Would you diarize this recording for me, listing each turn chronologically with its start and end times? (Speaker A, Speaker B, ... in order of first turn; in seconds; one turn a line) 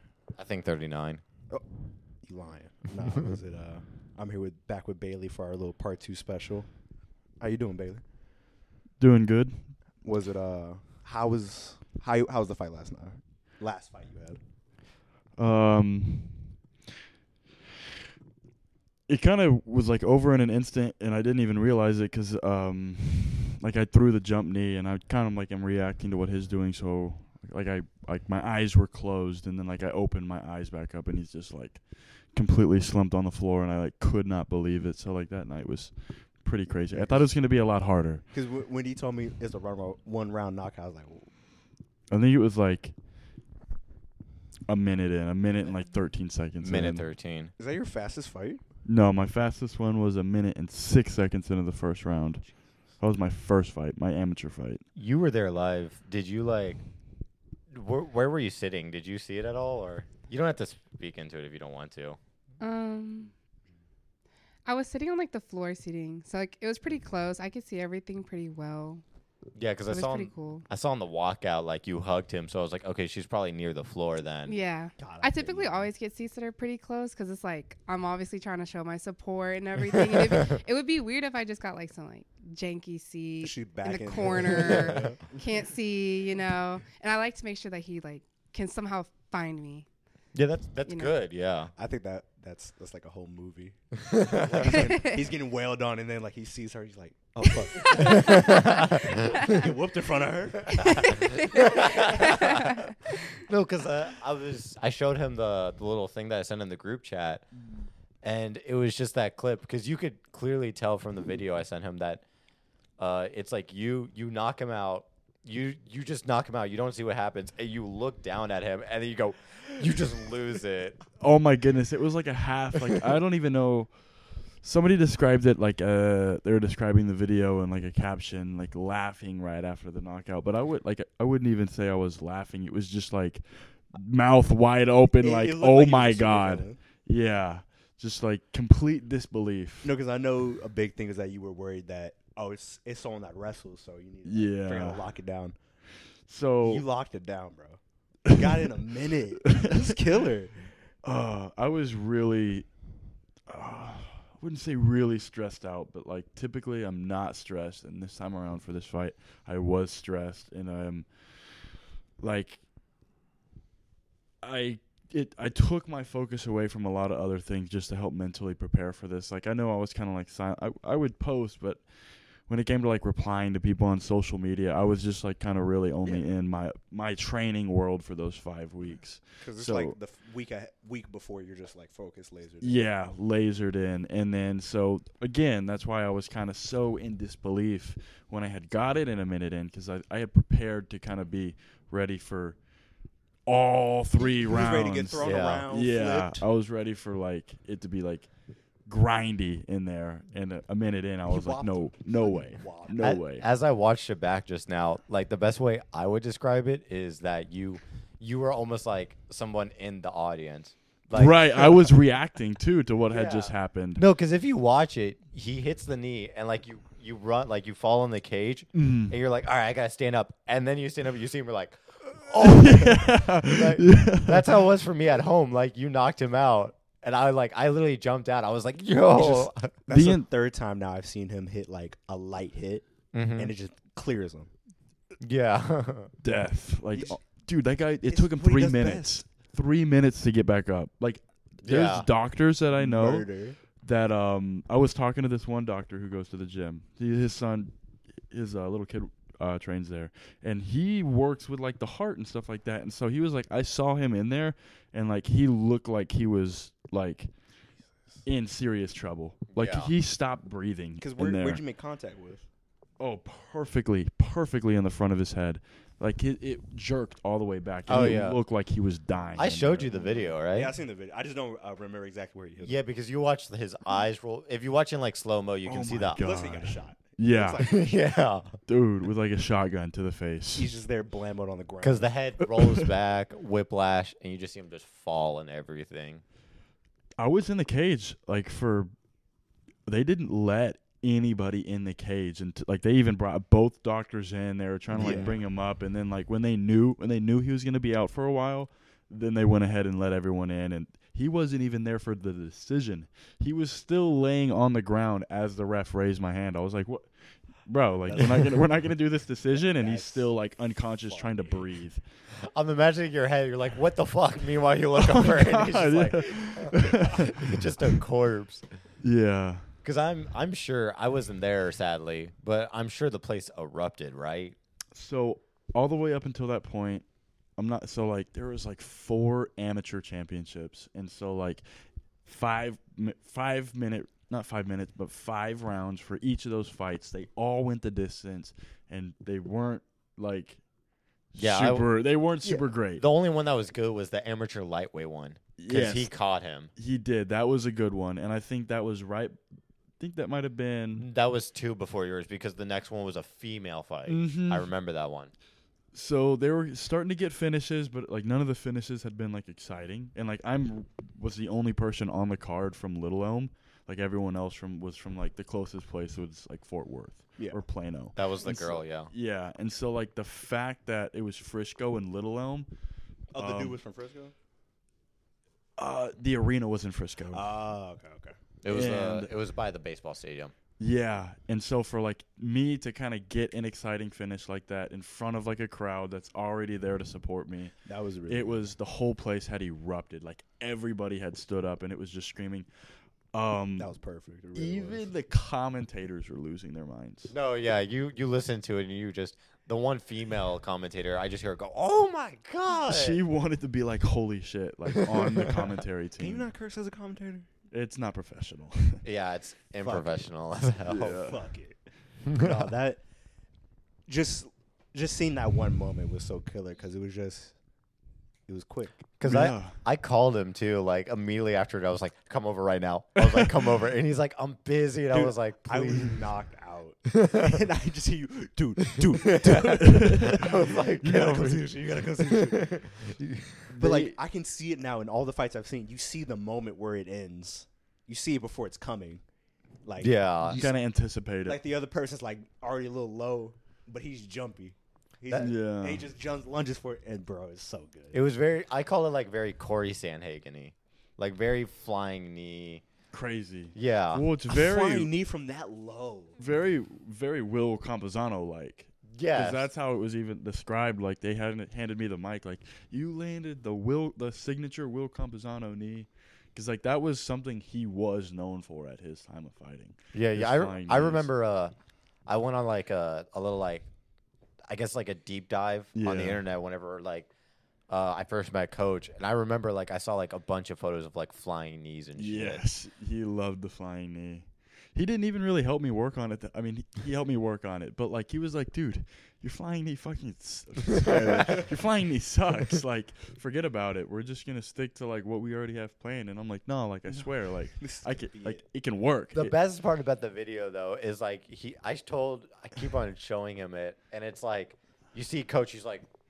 Speaker A: 0.3-1.2
Speaker B: 1.5-6.8
Speaker B: 7.4-8.0
Speaker C: 9.0-9.7
Speaker B: 10.0-14.4
Speaker C: 15.4-16.5
Speaker C: 19.1-38.2
Speaker B: 36.9-37.3
Speaker B: 38.3-41.3
Speaker C: 42.1-42.9
Speaker C: 44.7-47.0
Speaker A: 46.6-47.5
Speaker B: 47.6-48.6
Speaker C: 48.8-52.4
Speaker C: 53.0-54.8
Speaker A: 55.0-56.8
Speaker A: 57.7-62.2
Speaker D: 62.6-63.3
Speaker D: 64.6-69.0
Speaker A: 69.5-74.6
Speaker D: 69.9-70.6
Speaker D: 74.5-89.8
Speaker B: 75.0-75.9
Speaker B: 83.4-85.4
Speaker A: 90.3-91.7
Speaker D: 90.9-91.1
Speaker B: 91.8-102.3
Speaker A: 94.1-94.8
Speaker D: 94.7-95.2
Speaker D: 98.2-98.6
Speaker A: 98.2-99.5
Speaker A: 100.8-107.5
Speaker D: 102.2-102.8
Speaker A: 108.2-112.2
Speaker A: 113.0-121.0
Speaker C: 121.2-124.0
Speaker C: 124.6-139.9
Speaker B: 135.2-136.8
Speaker B: 139.8-145.6
Speaker C: 144.2-145.1
Speaker C: 146.2-146.8
Speaker B: 146.6-150.8
Speaker C: 149.4-149.9
Speaker C: 151.0-152.7
Speaker C: 153.5-162.6
Speaker C: 164.4-180.0
Speaker B: 179.4-182.8
Speaker C: 182.6-192.6
Speaker C: 193.4-198.3
Speaker B: 194.2-196.4
Speaker A: 195.2-195.7
Speaker C: 198.8-203.4
Speaker B: 201.3-203.0
Speaker A: 203.0-211.9
Speaker C: 211.1-214.0
Speaker A: 213.1-229.7
Speaker C: 218.7-219.2
Speaker C: 222.4-224.6
Speaker B: 229.1-232.8
Speaker C: 229.9-230.3
Speaker A: 233.1-233.5
Speaker B: 233.3-234.5
Speaker A: 235.2-236.1
Speaker C: 236.2-247.7
Speaker B: 236.9-237.2
Speaker B: 238.1-239.2
Speaker A: 241.6-242.1
Speaker B: 242.7-243.6
Speaker C: 248.3-257.3
Speaker C: 258.2-261.6
Speaker A: 259.5-259.9
Speaker B: 261.0-262.4
Speaker C: 263.0-270.3
Speaker A: 267.9-268.4
Speaker A: 269.4-270.7
Speaker B: 270.5-272.8
Speaker A: 272.6-276.2
Speaker C: 275.6-277.7
Speaker B: 276.2-277.8
Speaker A: 277.6-278.6
Speaker C: 278.7-280.7
Speaker B: 280.5-282.1
Speaker A: 281.8-286.2
Speaker C: 282.5-282.9
Speaker C: 287.2-288.9
Speaker C: 289.9-307.1
Speaker A: 294.9-295.3
Speaker B: 294.9-295.4
Speaker C: 307.6-312.0
Speaker B: 308.1-308.6
Speaker B: 309.5-311.6
Speaker A: 312.5-318.6
Speaker C: 314.9-317.9
Speaker C: 319.0-319.6
Speaker A: 319.8-324.6
Speaker C: 324.9-327.1
Speaker C: 327.6-340.6
Speaker C: 341.3-343.0
Speaker A: 341.4-341.9
Speaker A: 343.0-346.7
Speaker C: 345.6-346.1
Speaker C: 346.8-349.4
Speaker C: 350.0-351.1
Speaker A: 351.0-355.3
Speaker C: 354.1-354.7
Speaker C: 355.9-372.7
Speaker B: 367.4-367.6
Speaker A: 368.1-369.1
Speaker B: 373.3-374.3
Speaker C: 373.4-373.8
Speaker C: 375.8-377.4
Speaker B: 377.3-378.4
Speaker A: 378.6-380.5
Speaker C: 378.7-379.3
Speaker C: 380.8-387.7
Speaker B: 387.9-388.6
Speaker C: 388.3-392.7
Speaker C: 393.3-393.9
Speaker B: 393.8-395.1
Speaker C: 394.5-397.3
Speaker A: 397.3-403.2
Speaker C: 402.7-406.5
Speaker B: 406.2-407.5
Speaker C: 407.7-409.0
Speaker A: 409.0-411.1
Speaker B: 409.8-410.2
Speaker C: 410.8-411.4
Speaker B: 411.0-413.0
Speaker A: 412.3-412.6
Speaker B: 414.1-417.6
Speaker B: 418.5-419.0
Speaker A: 419.2-426.2
Speaker C: 419.2-419.8
Speaker B: 425.1-432.7
Speaker A: 427.1-427.6
Speaker A: 429.7-433.6
Speaker C: 429.8-430.3
Speaker C: 431.0-431.6
Speaker C: 433.7-434.1
Speaker B: 433.8-439.2
Speaker B: 439.8-440.8
Speaker A: 440.0-440.6
Speaker C: 440.4-441.6
Speaker B: 441.4-448.2
Speaker C: 445.4-446.1
Speaker A: 448.1-452.8
Speaker C: 453.1-455.1
Speaker A: 453.7-454.2
Speaker B: 454.5-456.3
Speaker C: 456.4-471.3
Speaker A: 459.1-459.7
Speaker A: 470.1-471.7
Speaker A: 472.2-473.9
Speaker A: 474.7-477.3
Speaker C: 475.9-476.4
Speaker A: 477.9-482.6
Speaker C: 482.2-499.6
Speaker A: 491.1-491.6
Speaker B: 497.1-498.6
Speaker A: 499.3-506.0